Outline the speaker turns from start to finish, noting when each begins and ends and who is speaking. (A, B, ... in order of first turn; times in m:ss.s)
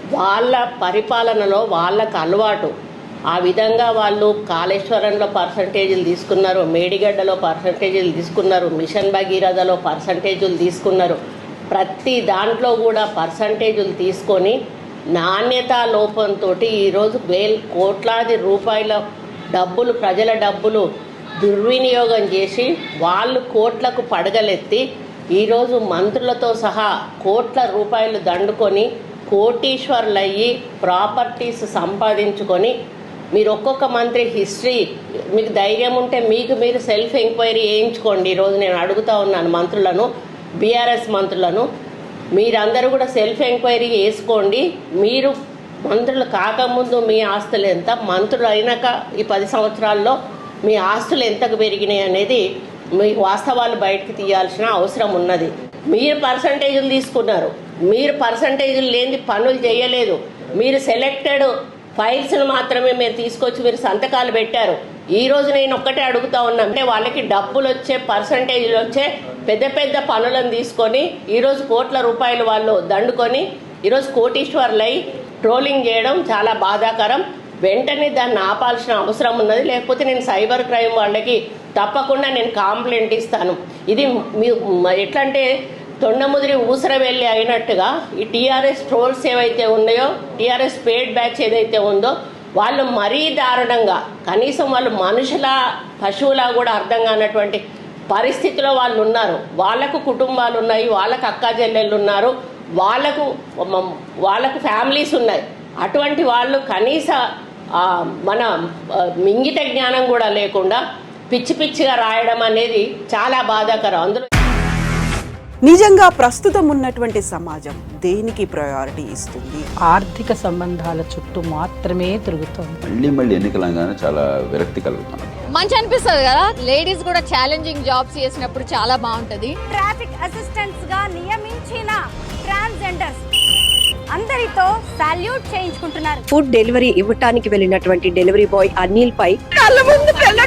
0:00.1-0:02.7 A
0:03.3-0:11.2 A
0:11.7-0:14.6 A
0:15.1-0:19.0 A
0:19.5-0:20.8 A
0:21.4-0:24.8 A
0:25.4-0:32.7 A
0:33.3-0:40.1 A
0:40.6-0:41.6 A
0:42.3-0:45.4 A
0:45.9-0:52.4 A
0:53.0-1:25.5 A
1:26.0-1:47.2 A
1:47.8-1:48.5 A
1:49.2-1:54.2 A
1:55.6-1:59.6 B
1:59.8-2:02.8 C
2:02.8-2:05.3 D
2:05.6-2:09.5 E
2:09.7-2:13.2 F
2:14.1-2:16.2 F
2:16.4-2:20.0 G